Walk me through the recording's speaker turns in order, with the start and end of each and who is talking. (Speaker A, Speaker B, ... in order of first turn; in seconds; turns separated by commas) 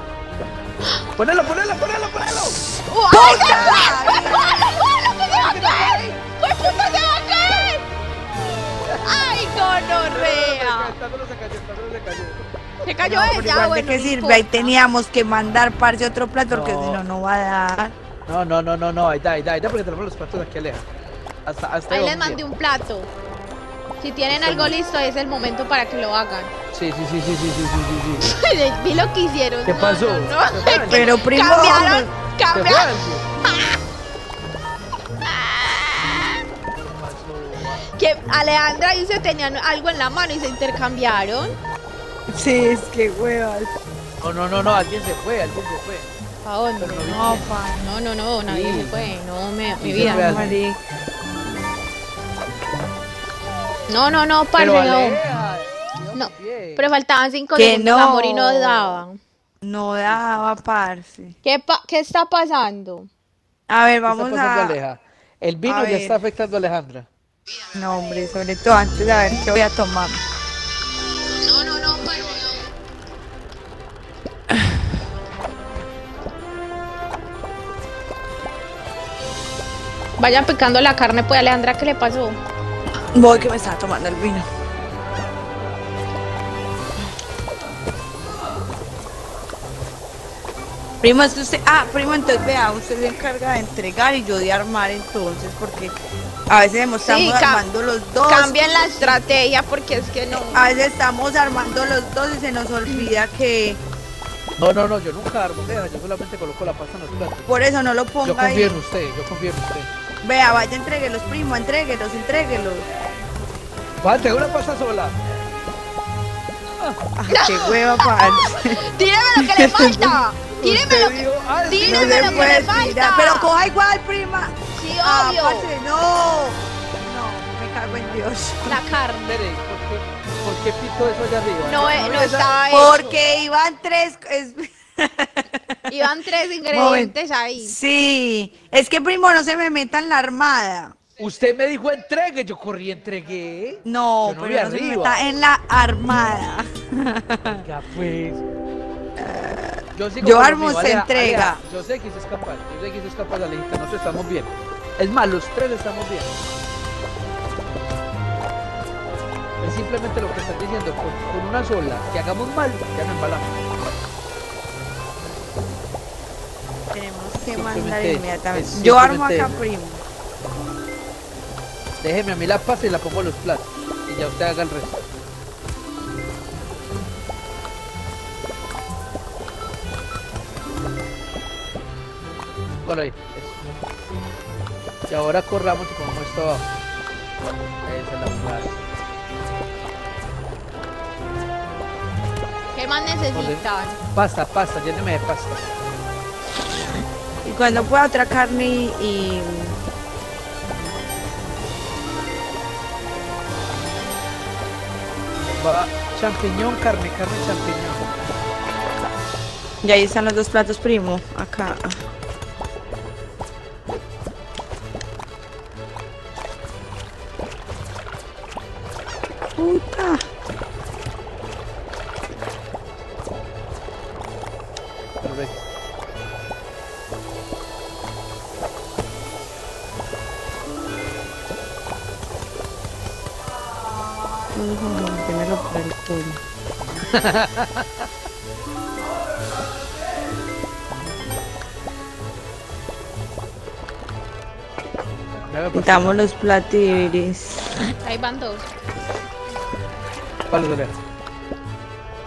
Speaker A: 1.2-2.7, Speaker B: 2.9-7.8, Speaker C: 3.1-4.8, Speaker A: 5.4-6.0, Speaker C: 5.5-5.9, Speaker A: 8.8-12.4, Speaker B: 8.9-10.9, Speaker B: 12.8-14.7, Speaker C: 13.0-17.9, Speaker A: 16.5-17.0, Speaker A: 18.3-20.8, Speaker A: 21.4-22.4, Speaker B: 21.9-23.1, Speaker B: 24.0-26.5, Speaker A: 24.3-24.7, Speaker A: 26.7-28.3, Speaker B: 28.2-33.9, Speaker A: 29.6-31.1, Speaker C: 30.9-32.1, Speaker A: 32.5-33.3, Speaker B: 35.2-36.4, Speaker A: 36.7-37.9, Speaker B: 37.9-41.6, Speaker C: 42.3-43.7, Speaker A: 44.2-46.1, Speaker B: 46.4-50.5, Speaker A: 46.8-47.5, Speaker C: 47.1-47.8, Speaker A: 48.5-49.0, Speaker A: 49.8-50.6, Speaker C: 49.9-50.8, Speaker B: 53.9-55.2, Speaker A: 54.6-57.0, Speaker B: 56.1-59.2, Speaker C: 57.5-59.0, Speaker C: 59.6-61.3, Speaker B: 61.4-63.1, Speaker C: 63.7-64.8, Speaker A: 64.1-67.1, Speaker C: 65.7-66.2, Speaker C: 67.7-70.2, Speaker B: 71.4-72.7, Speaker B: 80.2-82.4, Speaker A: 83.1-83.5, Speaker C: 83.1-84.5, Speaker C: 91.0-95.9, Speaker C: 96.5-99.2, Speaker B: 97.0-97.6, Speaker B: 98.2-100.7, Speaker C: 100.5-103.8, Speaker A: 104.6-107.5, Speaker C: 107.5-108.8, Speaker A: 108.2-109.9, Speaker C: 110.2-112.9, Speaker A: 114.0-115.1, Speaker C: 117.2-118.8, Speaker B: 117.3-123.5, Speaker C: 119.3-120.2, Speaker A: 120.5-122.7, Speaker C: 121.8-128.8, Speaker B: 124.8-125.7, Speaker B: 128.7-129.4, Speaker A: 129.2-133.0, Speaker B: 131.6-133.1, Speaker C: 132.7-136.0, Speaker B: 135.9-137.8, Speaker C: 136.7-140.9, Speaker A: 141.2-145.2, Speaker C: 143.8-147.6, Speaker A: 147.4-148.4, Speaker C: 149.2-151.6, Speaker A: 149.9-156.3, Speaker A: 159.6-163.6, Speaker C: 166.9-170.0, Speaker A: 167.5-169.6, Speaker A: 172.0-175.1, Speaker A: 182.8-183.6, Speaker A: 185.1-186.7, Speaker A: 187.8-188.7, Speaker B: 192.7-194.0, Speaker A: 193.3-195.7, Speaker C: 197.4-199.8, Speaker A: 205.6-208.0, Speaker C: 209.8-212.0, Speaker C: 219.6-220.2, Speaker A: 225.2-225.6, Speaker C: 234.5-236.4, Speaker A: 237.1-238.1, Speaker A: 245.5-246.2, Speaker C: 245.7-247.8, Speaker B: 247.9-248.7, Speaker A: 250.5-250.9